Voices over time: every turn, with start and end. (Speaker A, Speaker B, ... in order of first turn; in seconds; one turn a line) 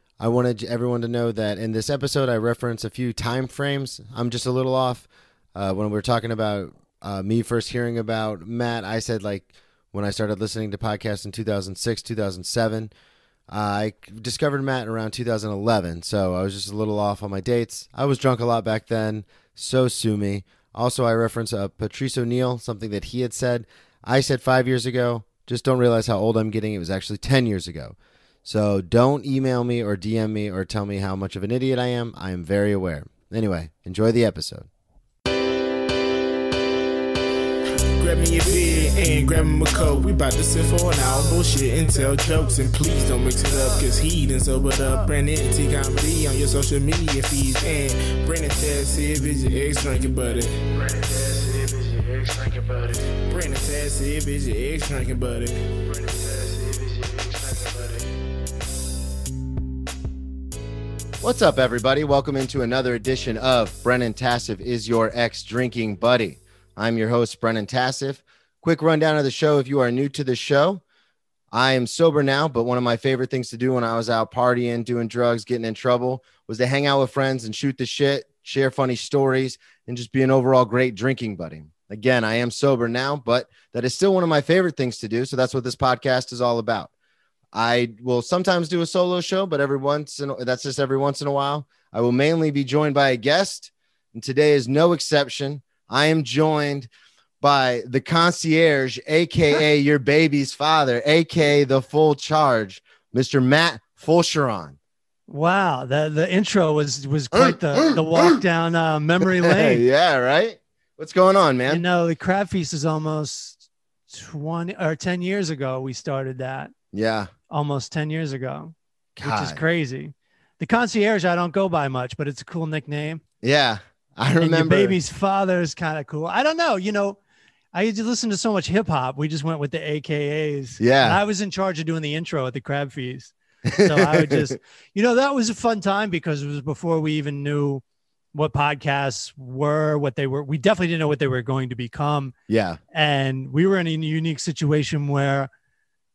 Speaker A: 0.2-12.9
Speaker A: 13.5-34.7
Speaker B: 38.0-58.0
Speaker A: 61.2-70.8
Speaker A: 71.5-86.9
Speaker A: 87.5-96.9
Speaker A: 97.4-104.8
Speaker C: 105.3-109.8
Speaker A: 107.3-108.4
Speaker A: 109.3-111.8
Speaker C: 111.7-116.7
Speaker A: 116.9-117.3
Speaker C: 117.5-123.2
Speaker A: 119.2-119.6
Speaker A: 123.4-125.0
Speaker C: 124.4-127.2
Speaker C: 127.7-137.8
Speaker A: 130.8-131.2
Speaker A: 133.6-134.6
Speaker C: 138.3-142.3
Speaker A: 142.5-142.8
Speaker C: 142.9-145.5